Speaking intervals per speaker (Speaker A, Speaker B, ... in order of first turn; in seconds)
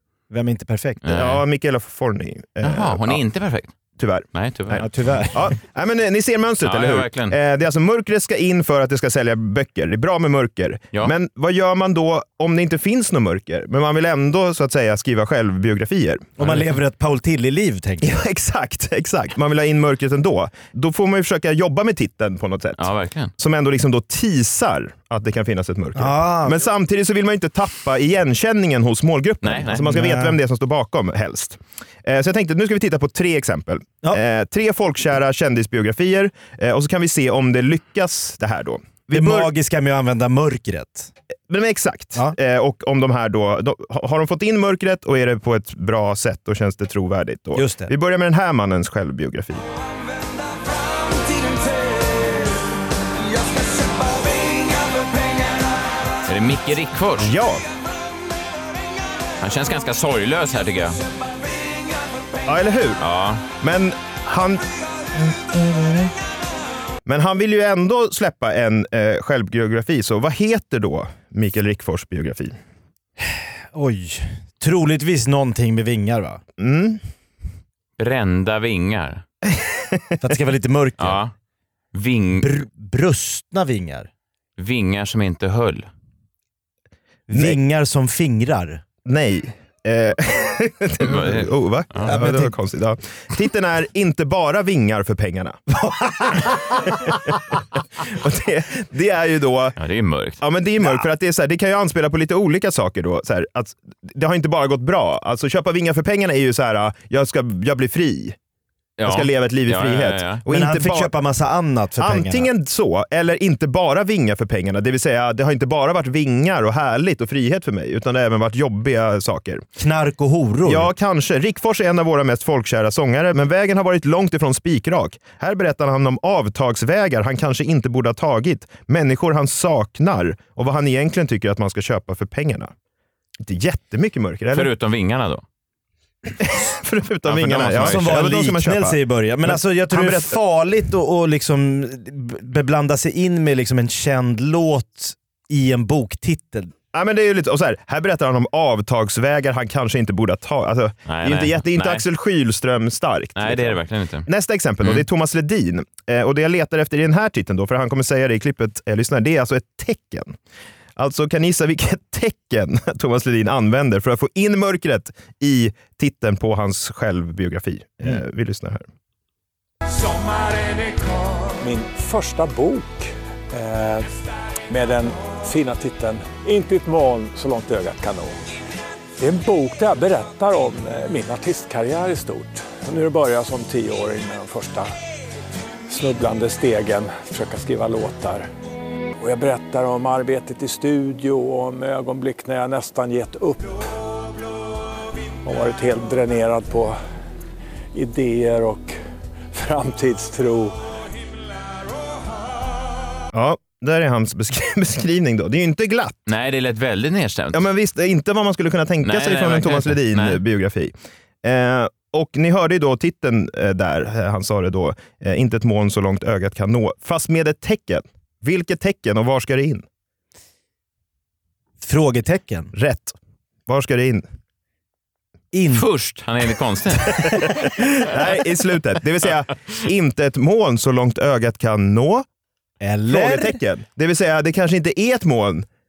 Speaker A: 0.3-1.0, 4.8-5.5, 16.4-18.2, 25.9-26.6, 29.9-30.4, 39.1-41.1, 47.5-47.9, 73.2-76.4, 80.2-81.2, 82.4-84.1, 87.3-88.8, 92.0-92.5, 95.8-96.8, 110.5-112.5, 119.8-120.9, 137.5-146.7, 221.8-222.7, 225.5-225.9, 232.8-233.6
Speaker B: 1.0-1.4, 2.6-3.7, 4.3-4.9, 6.6-7.4, 22.8-23.3, 29.4-30.0, 56.3-57.3, 59.4-61.0, 63.0-63.4, 78.0-79.2, 81.0-81.3, 81.9-82.5, 84.6-85.9, 91.0-92.1, 99.8-100.4, 109.0-110.4, 134.5-135.4, 137.3-138.2, 151.1-152.0, 153.4-154.3, 206.3-207.7, 209.0-210.4, 225.7-227.3
Speaker C: 1.1-3.2, 4.0-16.4, 18.0-39.5, 41.5-49.6, 57.2-57.6, 62.5-63.0, 63.6-64.6, 65.2-66.1, 67.1-72.6, 76.6-77.0, 79.5-80.1, 87.3-87.6, 89.0-95.6, 96.3-97.4, 98.0-99.8, 100.4-108.4, 109.0-111.1, 112.0-119.7, 120.7-132.7, 133.4-134.7, 136.4-140.4, 146.9-160.3, 161.0-168.8, 203.3-206.2, 207.5-219.8, 222.7-223.2, 223.7-224.2, 227.6-232.2, 233.1-235.7
Speaker D: 171.6-174.1, 174.7-178.4, 179.2-184.9, 185.9-188.5, 189.2-193.9, 195.4-197.0, 197.9-199.0, 199.5-200.8